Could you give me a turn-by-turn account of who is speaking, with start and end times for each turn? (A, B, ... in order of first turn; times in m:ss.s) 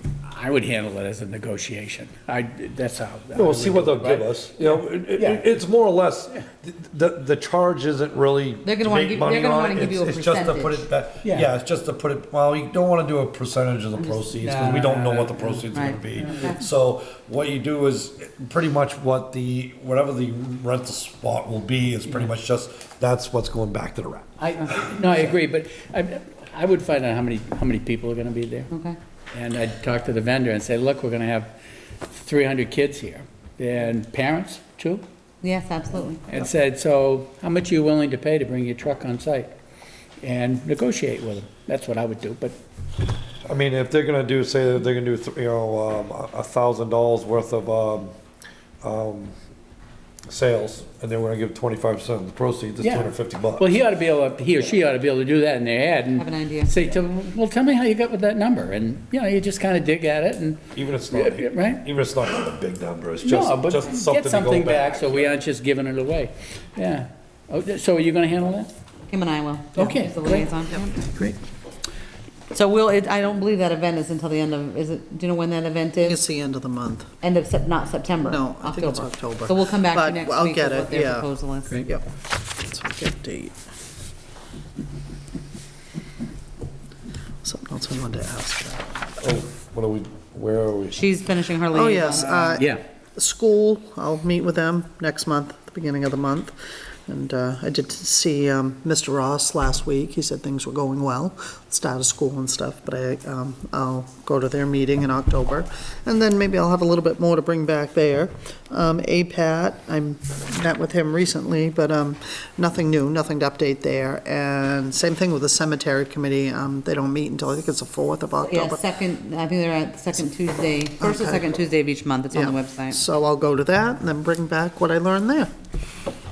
0:00.2-0:05.5 A
0:03.3-0:24.6 B
0:08.6-0:10.9 C
0:11.2-0:11.5 A
0:14.4-0:16.6 A
0:15.7-0:16.6 C
0:24.4-0:28.7 A
0:28.7-0:29.0 C
0:29.3-0:31.5 A
0:32.1-0:35.0 A
0:35.4-0:36.2 C
0:36.3-0:39.5 A
0:40.2-0:42.6 A
0:43.4-0:48.1 B
0:48.8-0:49.3 B
0:50.3-0:53.7 B
0:52.8-1:01.8 A
0:56.2-0:56.7 C
1:00.8-1:05.4 B
1:03.2-1:08.7 A
1:09.1-1:11.0 C
1:09.8-1:11.4 A
1:12.5-1:16.2 C
1:16.0-1:17.1 D
1:17.2-1:21.8 C
1:18.2-1:21.3 D
1:21.8-1:23.6 D
1:27.4-1:29.0 D
1:29.2-1:31.0 B
1:30.9-1:32.4 C
1:31.7-1:36.5 D
1:32.2-1:32.8 A
1:37.1-1:58.8 D
1:58.4-2:03.0 C
2:01.0-2:01.6 D
2:02.3-2:05.5 D